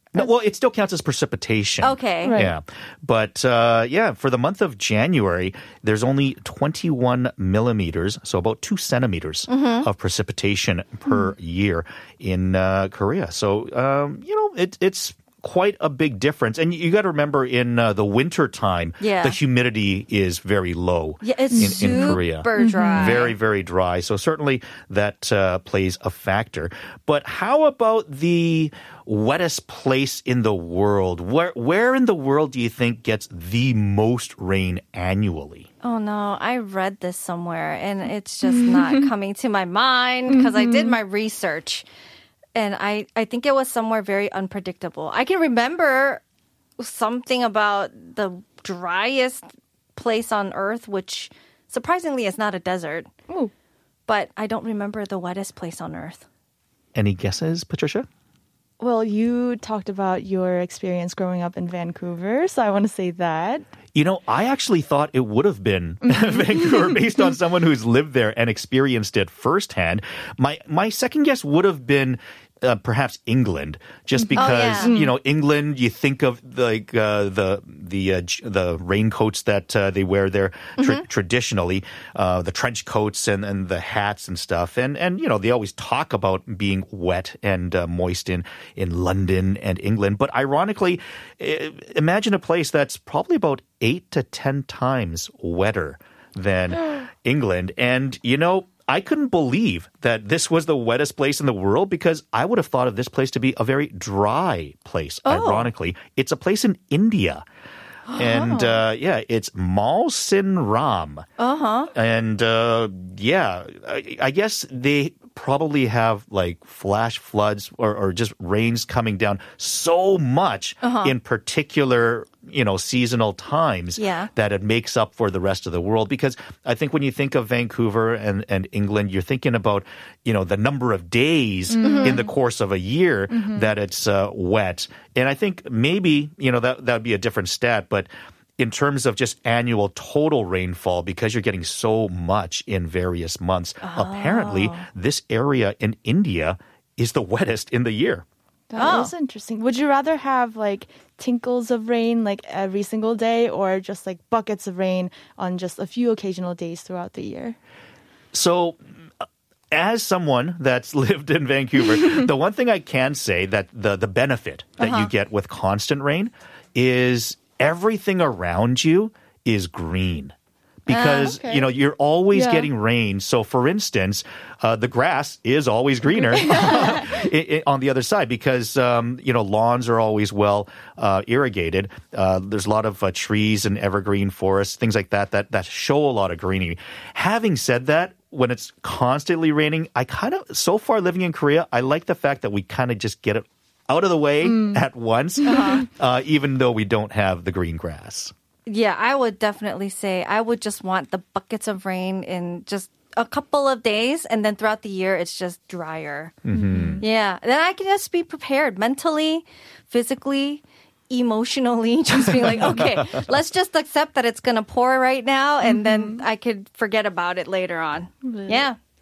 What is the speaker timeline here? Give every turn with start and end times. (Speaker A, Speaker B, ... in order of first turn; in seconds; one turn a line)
Speaker A: 0.1-35.7
Speaker B: 1.8-2.4
Speaker C: 2.2-2.5
Speaker B: 9.5-9.9
Speaker B: 19.0-19.4
Speaker B: 21.2-23.4
Speaker C: 21.5-23.2
Speaker B: 35.8-41.9
Speaker C: 38.5-39.1
Speaker C: 40.3-41.0
Speaker B: 42.5-46.2
Speaker B: 46.8-53.1
Speaker B: 54.1-56.2
Speaker A: 56.9-58.1
Speaker C: 58.8-63.6
Speaker A: 63.9-107.4
Speaker C: 66.1-67.0
Speaker C: 74.2-75.1
Speaker B: 74.3-74.9
Speaker B: 80.8-81.0
Speaker B: 105.2-105.7
Speaker B: 108.1-108.8
Speaker A: 108.1-111.2
Speaker B: 111.4-111.9
Speaker A: 111.9-148.2
Speaker B: 120.8-121.1
Speaker B: 124.0-124.3
Speaker C: 131.7-132.3
Speaker B: 131.8-132.2
Speaker C: 133.3-133.7
Speaker B: 143.8-144.8
Speaker C: 148.7-157.6
Speaker B: 148.8-149.1
Speaker A: 158.3-158.8
Speaker A: 159.7-170.3
Speaker B: 164.8-165.1
Speaker A: 170.8-198.3
Speaker B: 170.9-171.3
Speaker C: 171.2-171.6
Speaker C: 172.3-172.7
Speaker C: 176.2-177.2
Speaker C: 194.4-194.8
Speaker B: 195.5-195.8
Speaker B: 198.7-206.3
Speaker A: 206.4-207.0
Speaker C: 206.5-207.0
Speaker B: 207.0-218.8
Speaker A: 212.3-213.3
Speaker C: 215.6-216.2
Speaker C: 218.2-218.7